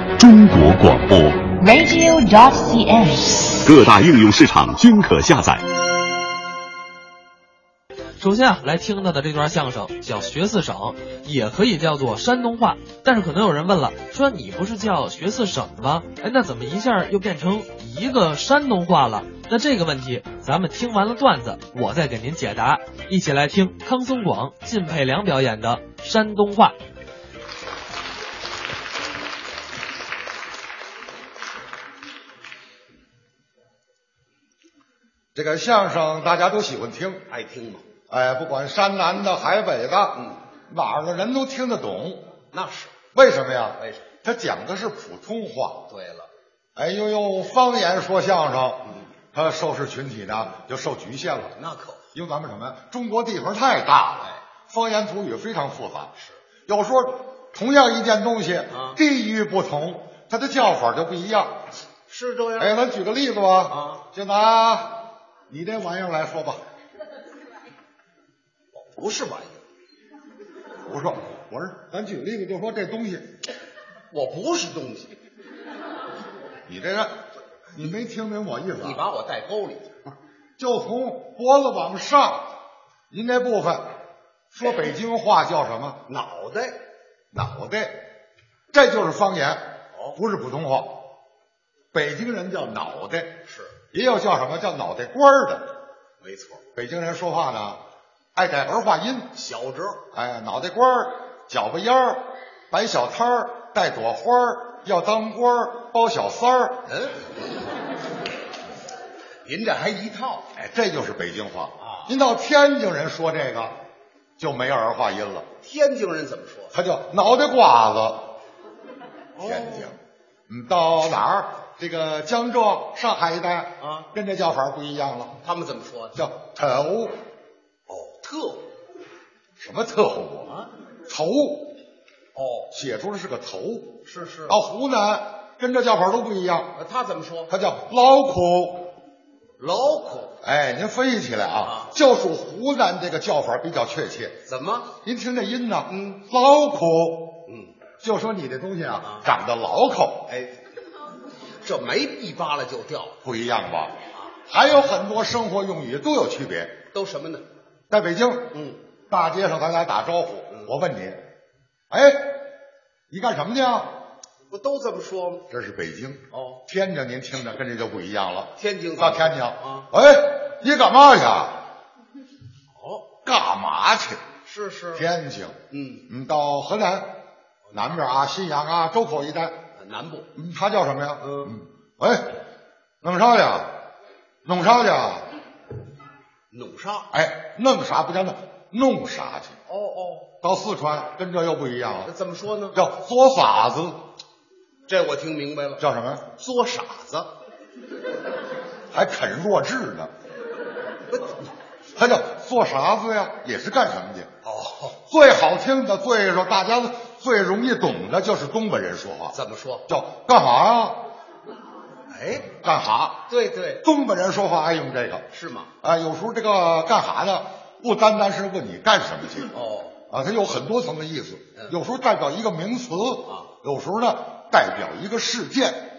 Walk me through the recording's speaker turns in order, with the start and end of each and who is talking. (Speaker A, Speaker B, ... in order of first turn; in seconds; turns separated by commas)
Speaker A: 0.2-1.5, Speaker B: 1.6-3.6, Speaker A: 3.6-5.6, Speaker C: 8.2-26.8, Speaker D: 35.3-37.3, Speaker E: 37.3-37.8, Speaker D: 38.1-42.3, Speaker E: 42.5-43.0, Speaker D: 43.1-45.9, Speaker E: 43.8-44.1, Speaker E: 45.9-46.3, Speaker D: 46.8-51.5, Speaker E: 51.5-52.0, Speaker D: 52.1-56.1, Speaker D: 56.7-61.5, Speaker E: 58.7-59.0, Speaker E: 62.1-62.8, Speaker D: 62.6-66.6, Speaker E: 63.7-64.0, Speaker E: 68.8-69.6, Speaker D: 70.8-73.3, Speaker E: 74.1-75.2, Speaker D: 76.7-77.1, Speaker D: 77.7-79.1, Speaker E: 78.8-80.2, Speaker D: 80.6-82.5, Speaker D: 83.1-83.8, Speaker D: 84.5-86.0, Speaker E: 86.1-86.8, Speaker D: 87.3-88.0, Speaker D: 88.7-89.6, Speaker D: 90.2-91.0, Speaker D: 91.9-93.4, Speaker E: 93.5-93.8, Speaker D: 93.9-95.7, Speaker E: 96.2-96.6, Speaker D: 96.8-97.8, Speaker D: 98.3-99.3, Speaker E: 99.3-100.0, Speaker D: 100.1-106.8, Speaker E: 106.9-107.3, Speaker E: 109.5-110.5, Speaker D: 110.5-113.8, Speaker E: 111.8-112.1, Speaker D: 114.4-115.5, Speaker E: 115.6-116.7, Speaker D: 116.7-118.3, Speaker E: 119.4-119.9, Speaker D: 119.4-120.0, Speaker D: 120.5-125.4, Speaker E: 123.8-124.1, Speaker E: 125.4-126.2, Speaker D: 126.2-127.2, Speaker E: 127.9-128.7, Speaker D: 129.6-131.7, Speaker E: 132.3-132.7, Speaker D: 132.7-136.7, Speaker E: 134.1-134.6, Speaker E: 136.8-137.5, Speaker D: 137.5-138.9, Speaker E: 139.6-140.4, Speaker D: 140.4-144.4, Speaker E: 141.6-141.9, Speaker E: 144.5-144.9, Speaker D: 145.0-147.4, Speaker E: 145.9-146.2, Speaker E: 147.5-147.7, Speaker D: 148.0-150.3, Speaker E: 150.3-150.5, Speaker E: 151.6-153.2, Speaker D: 153.2-154.0, Speaker D: 154.5-156.8, Speaker E: 156.9-157.5, Speaker D: 157.9-158.5, Speaker E: 158.5-158.8, Speaker D: 159.1-161.2, Speaker D: 161.9-162.4, Speaker D: 163.1-163.9, Speaker E: 164.5-165.4, Speaker D: 165.5-171.6, Speaker E: 166.3-166.6, Speaker E: 168.6-169.9, Speaker E: 172.7-173.1, Speaker D: 173.2-174.2, Speaker E: 174.4-175.1, Speaker D: 174.9-175.6, Speaker E: 175.7-176.1, Speaker D: 176.1-177.2, Speaker D: 177.7-179.6, Speaker E: 179.8-180.3, Speaker D: 180.3-182.3, Speaker E: 181.2-181.5, Speaker D: 183.0-183.8, Speaker D: 184.4-185.3, Speaker E: 186.5-187.1, Speaker D: 187.1-189.6, Speaker E: 189.7-190.3, Speaker D: 190.4-192.1, Speaker E: 192.1-192.8, Speaker D: 192.7-194.0, Speaker E: 194.9-197.3, Speaker D: 195.8-196.3, Speaker D: 198.9-200.1, Speaker E: 201.1-201.4, Speaker D: 201.9-204.3, Speaker E: 204.4-205.0, Speaker D: 205.1-209.3, Speaker E: 209.3-209.8, Speaker D: 209.9-211.0, Speaker E: 212.1-212.5, Speaker D: 212.6-213.3, Speaker E: 213.3-213.8, Speaker D: 213.8-215.2, Speaker E: 215.3-215.7, Speaker D: 215.8-219.5, Speaker E: 219.5-220.0, Speaker D: 220.1-225.9